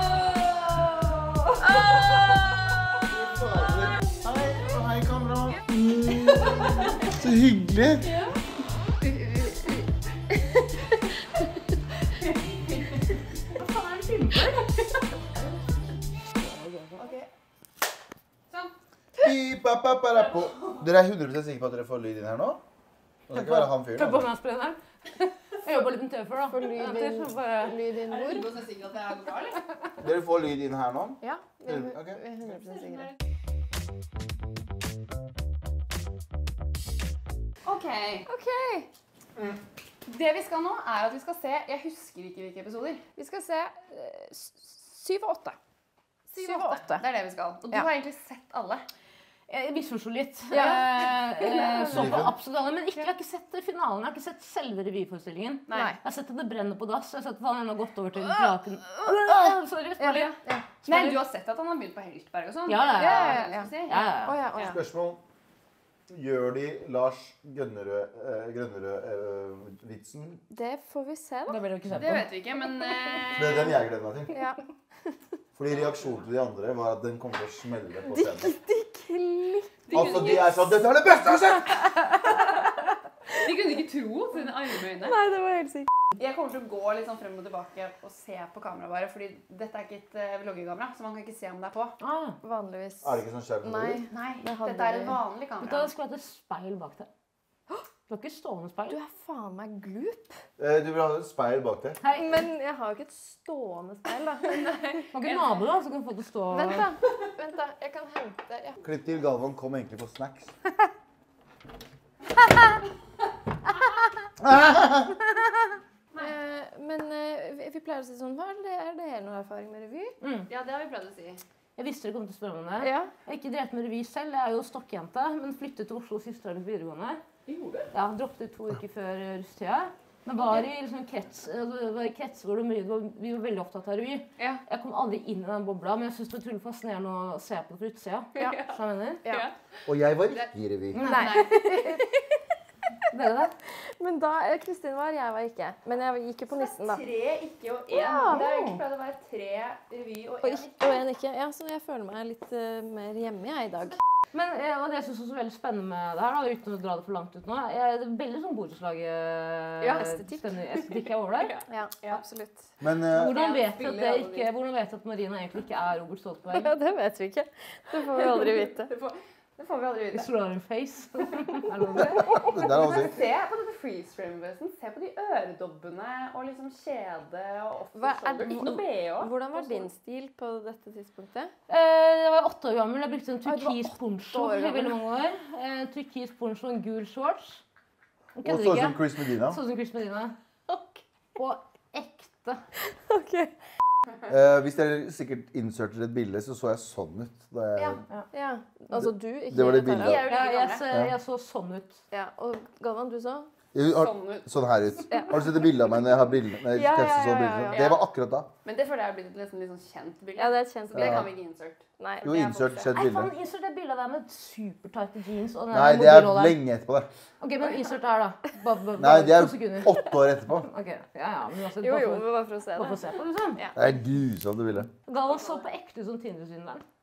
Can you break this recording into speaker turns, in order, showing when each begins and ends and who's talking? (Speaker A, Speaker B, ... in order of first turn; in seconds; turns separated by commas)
Speaker A: 1.8-2.5, Speaker B: 1.9-2.2, Speaker C: 3.0-6.6, Speaker C: 7.1-8.1, Speaker A: 12.5-13.0, Speaker D: 13.8-14.2, Speaker D: 16.4-17.0, Speaker A: 17.0-17.3, Speaker C: 19.2-22.6, Speaker C: 23.3-24.3, Speaker D: 23.3-27.8, Speaker B: 26.5-28.7, Speaker A: 28.1-29.6, Speaker C: 30.0-32.2, Speaker B: 31.2-33.1, Speaker A: 32.5-33.1, Speaker A: 37.6-38.3, Speaker B: 38.3-38.9, Speaker A: 40.1-43.1, Speaker B: 43.2-45.6, Speaker A: 46.3-48.9, Speaker B: 46.4-47.1, Speaker D: 49.5-61.2, Speaker B: 50.5-51.8, Speaker C: 51.9-52.3, Speaker A: 55.7-56.0, Speaker B: 55.7-56.0, Speaker A: 60.0-64.7, Speaker D: 62.7-64.4, Speaker B: 62.9-64.8, Speaker C: 64.6-65.2, Speaker C: 66.1-70.4, Speaker B: 70.5-71.7, Speaker D: 71.5-72.3, Speaker A: 72.0-73.8, Speaker C: 73.4-74.3, Speaker B: 74.3-74.6, Speaker C: 75.6-78.5, Speaker B: 78.1-80.7, Speaker A: 79.9-80.7, Speaker C: 79.9-81.7, Speaker B: 81.8-82.5, Speaker A: 83.4-85.2, Speaker B: 85.0-85.9, Speaker A: 86.2-92.0, Speaker D: 92.0-92.4, Speaker B: 92.4-95.2, Speaker C: 93.0-94.0, Speaker A: 94.1-95.9, Speaker D: 95.6-97.1, Speaker D: 98.1-99.0, Speaker B: 98.9-100.4, Speaker C: 100.6-102.0, Speaker D: 102.0-102.4, Speaker B: 102.1-105.0, Speaker A: 104.5-105.6, Speaker D: 105.1-106.9, Speaker B: 106.5-108.4, Speaker A: 108.5-108.8, Speaker C: 108.8-110.5, Speaker C: 114.4-115.1, Speaker B: 116.2-120.2, Speaker D: 120.2-120.5, Speaker A: 120.5-121.4, Speaker D: 121.8-127.2, Speaker B: 122.8-123.1, Speaker A: 127.5-127.8, Speaker D: 127.9-139.2, Speaker A: 134.4-134.6, Speaker A: 138.4-139.6, Speaker C: 139.9-141.1, Speaker D: 140.9-142.0, Speaker B: 141.0-142.1, Speaker A: 141.1-142.0, Speaker D: 143.1-143.5, Speaker B: 143.9-147.1, Speaker A: 146.5-151.0, Speaker B: 147.9-148.4, Speaker D: 148.3-148.8, Speaker B: 150.4-154.0, Speaker D: 154.3-161.5, Speaker A: 159.8-160.1, Speaker B: 160.0-160.5, Speaker B: 161.7-162.7, Speaker C: 162.8-163.4, Speaker D: 163.1-166.7, Speaker A: 163.2-164.5, Speaker B: 166.5-168.9, Speaker A: 168.1-170.3, Speaker D: 170.1-172.7, Speaker C: 172.3-173.2, Speaker A: 172.6-179.9, Speaker B: 177.9-181.5, Speaker D: 181.7-187.6, Speaker B: 183.4-185.0, Speaker D: 188.4-190.3, Speaker C: 188.4-189.6, Speaker D: 191.4-192.6, Speaker B: 193.1-193.5, Speaker C: 194.3-198.0, Speaker A: 197.8-198.0, Speaker B: 198.3-200.3, Speaker C: 199.0-200.2, Speaker A: 200.0-200.9, Speaker D: 200.2-202.0, Speaker B: 202.1-203.5, Speaker C: 203.7-208.5, Speaker A: 203.8-204.6, Speaker B: 206.7-207.9, Speaker A: 207.7-208.0, Speaker A: 208.6-212.7, Speaker B: 210.4-211.3, Speaker C: 210.9-211.2, Speaker B: 212.0-212.5, Speaker C: 212.2-213.3, Speaker D: 212.9-216.6, Speaker C: 215.7-217.1, Speaker D: 217.4-223.6, Speaker C: 219.0-220.7, Speaker B: 221.8-223.8, Speaker C: 223.8-224.9, Speaker D: 225.1-226.8